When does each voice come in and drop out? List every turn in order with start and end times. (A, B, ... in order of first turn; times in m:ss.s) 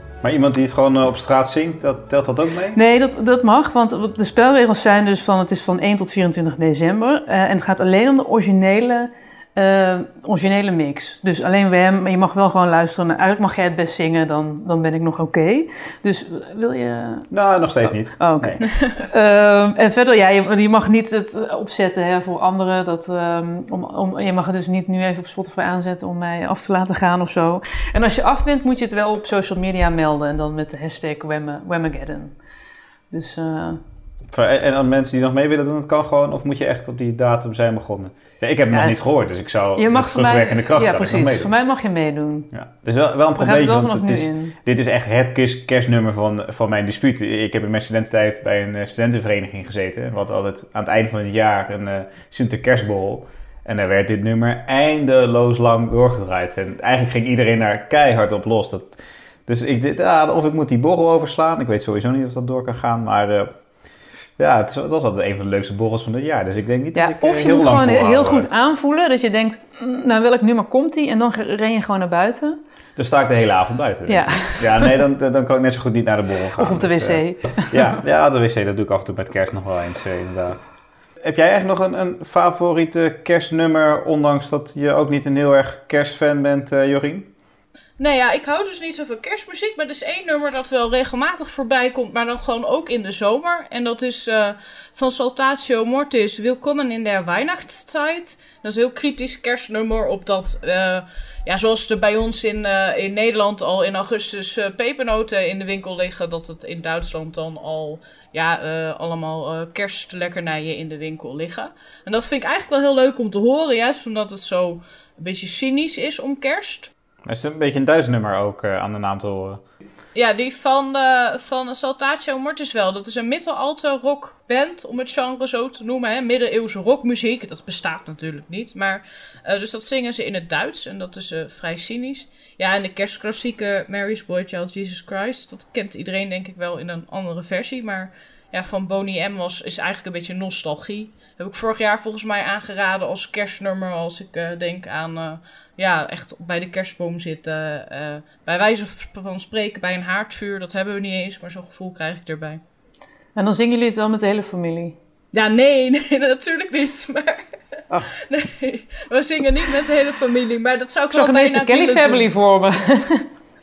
0:00.2-0:02.8 A
0:02.7-0:17.3 B
0:17.3-0:18.6 A
0:18.2-0:32.3 B
0:33.1-0:33.8 B
0:34.3-0:41.5 A
0:38.7-0:39.0 B
0:39.8-0:42.5 B
0:42.5-1:03.5 A
0:43.4-0:44.5 B
1:04.4-1:08.5 A
1:06.9-1:12.6 B
1:13.0-1:20.7 A
1:14.1-1:15.0 B
1:16.6-1:18.0 B
1:21.2-1:27.3 A
1:28.0-1:56.9 C
1:57.2-1:59.6 A
2:00.1-2:32.6 C
2:33.4-2:35.0 B
2:35.3-2:37.5 C
2:38.2-2:42.3 C
2:41.1-2:43.2 B